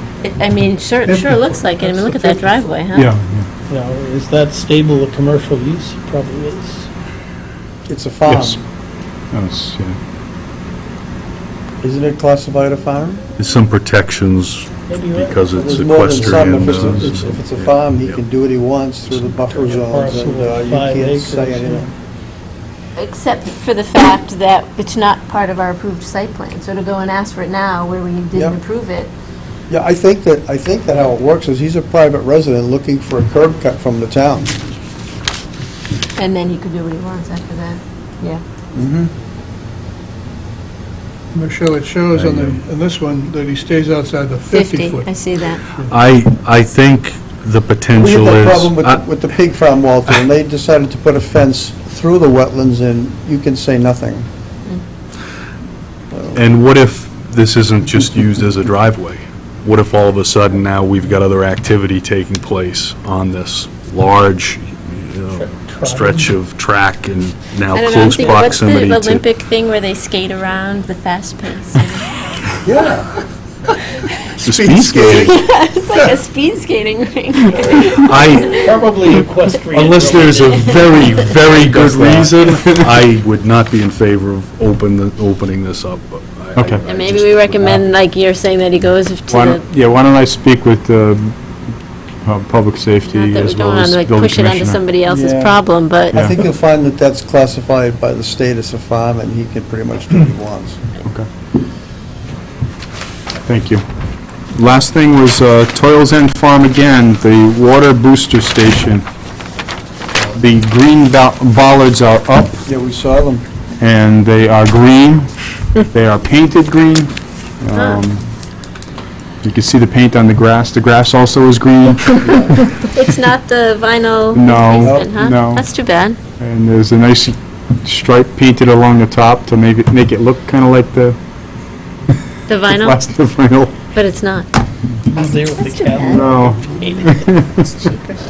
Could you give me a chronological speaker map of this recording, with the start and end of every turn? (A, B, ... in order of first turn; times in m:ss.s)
0:00.2-0:03.1 A
0:02.9-0:03.5 B
0:03.7-0:06.9 C
0:07.9-0:08.6 D
0:08.2-0:08.6 B
0:09.3-0:10.0 B
0:11.8-0:13.2 D
0:13.4-0:18.2 E
0:14.9-0:15.9 C
0:15.6-0:21.9 D
0:16.2-0:17.2 B
0:19.2-0:21.9 C
0:23.0-0:29.1 A
0:29.7-0:34.6 D
0:36.2-0:38.4 A
0:38.7-0:39.1 D
0:41.3-0:45.1 F
0:42.1-0:42.6 E
0:44.5-0:45.6 A
0:45.8-0:49.0 E
0:48.0-0:54.3 D
0:56.1-0:56.4 D
0:56.3-1:09.2 E
1:05.3-1:06.3 C
1:07.7-1:12.1 A
1:12.6-1:13.1 D
1:14.4-1:15.4 D
1:14.4-1:15.4 E
1:14.9-1:18.7 A
1:18.0-1:18.6 E
1:18.3-1:20.6 C
1:19.7-1:27.8 E
1:20.4-1:23.0 B
1:20.5-1:21.1 A
1:26.6-1:26.8 B
1:26.7-1:29.6 A
1:29.3-1:31.3 B
1:32.2-1:34.8 B
1:33.0-1:36.3 A
1:35.0-1:35.6 D
1:36.1-1:40.8 D
1:43.4-1:43.8 B
1:44.6-1:49.0 B
1:50.3-1:52.6 B
1:52.6-1:53.4 D
1:53.8-1:55.3 B
1:55.9-1:58.2 B
1:57.7-1:58.0 A
1:59.4-2:02.6 B
2:02.2-2:06.2 A
2:04.3-2:05.7 B
2:04.8-2:05.1 D
2:06.4-2:11.2 B
2:12.5-2:13.0 A
2:12.7-2:13.7 B
2:13.9-2:14.5 A
2:15.0-2:17.2 C
2:15.6-2:16.4 A
2:16.2-2:17.7 B
2:17.0-2:18.2 A